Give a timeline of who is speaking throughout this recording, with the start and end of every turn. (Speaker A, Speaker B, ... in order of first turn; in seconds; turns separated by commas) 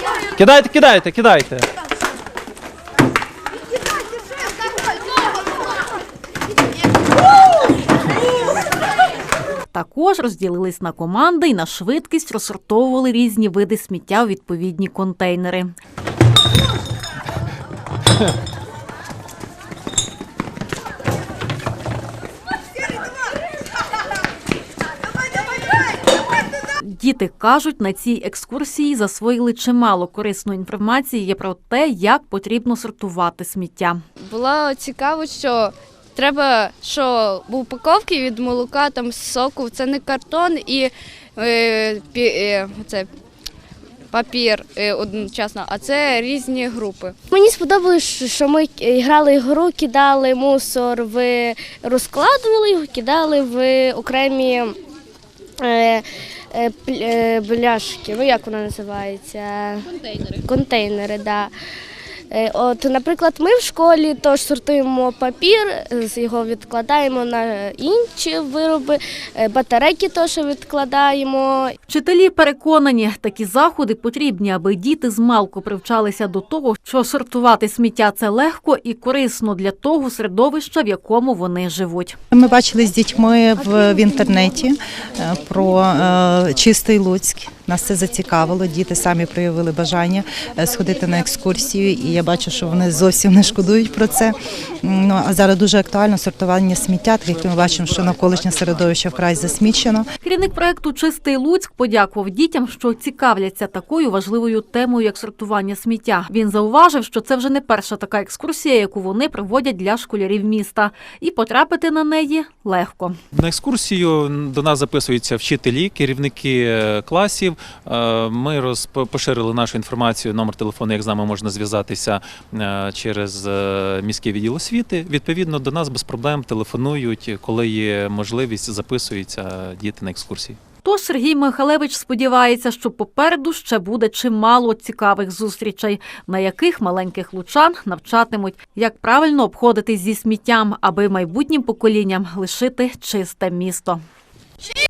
Speaker A: 0.4-1.7, Speaker B: 9.7-15.7, Speaker B: 26.8-34.0, Speaker C: 34.2-43.1, Speaker C: 44.1-47.2, Speaker D: 47.3-54.7, Speaker D: 55.6-61.5, Speaker D: 62.3-71.8, Speaker B: 71.9-82.2, Speaker E: 82.3-100.0, Speaker B: 100.2-113.2, Speaker A: 113.3-130.6, Speaker B: 130.8-144.0